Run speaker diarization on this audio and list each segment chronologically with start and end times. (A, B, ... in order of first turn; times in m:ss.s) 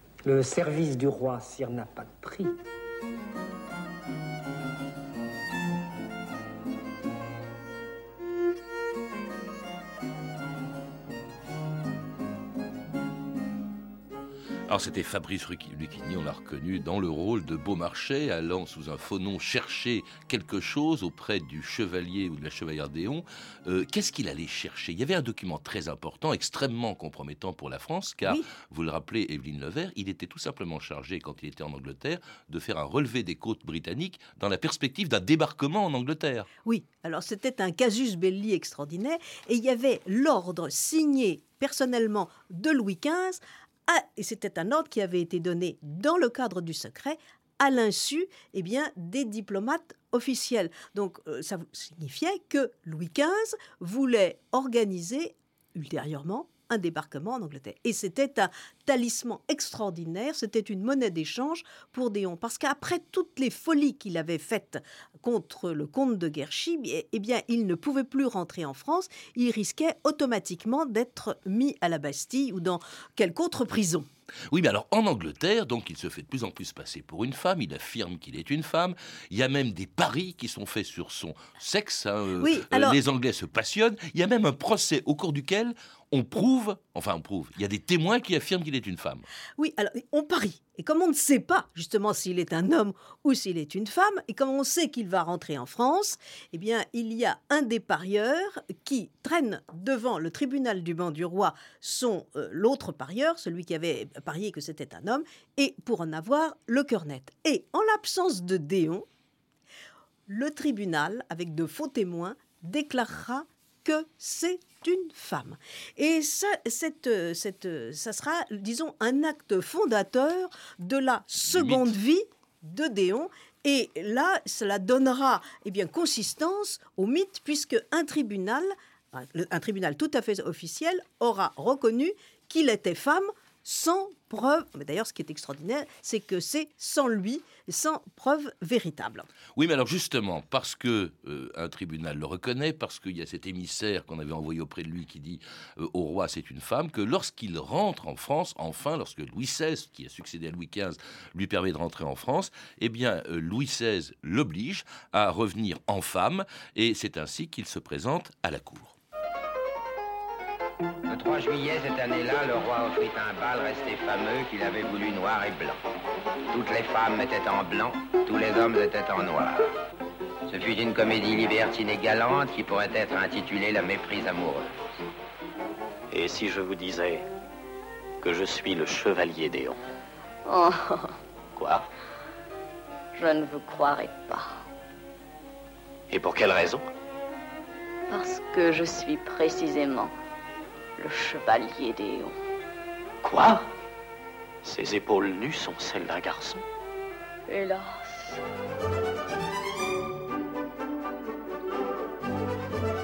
0:00.2-0:02.6 A
0:14.7-0:36.5 B
0:36.6-1:14.1 C
1:14.5-1:29.2 B
1:22.4-1:23.0 C
1:29.6-1:49.0 C
1:50.3-2:19.3 C
2:01.5-2:01.9 B
2:19.6-2:39.0 B
2:41.1-2:45.8 D
2:46.5-2:49.7 D
2:50.5-2:54.7 D
2:56.1-2:57.2 E
2:58.2-2:59.8 E
3:00.4-3:01.2 F
3:01.6-3:01.9 E
3:03.2-3:04.6 F
3:06.1-3:06.9 E
3:08.1-3:10.1 F
3:11.0-3:12.4 F
3:13.2-3:13.6 E
3:14.6-3:16.6 E
3:17.5-3:18.4 F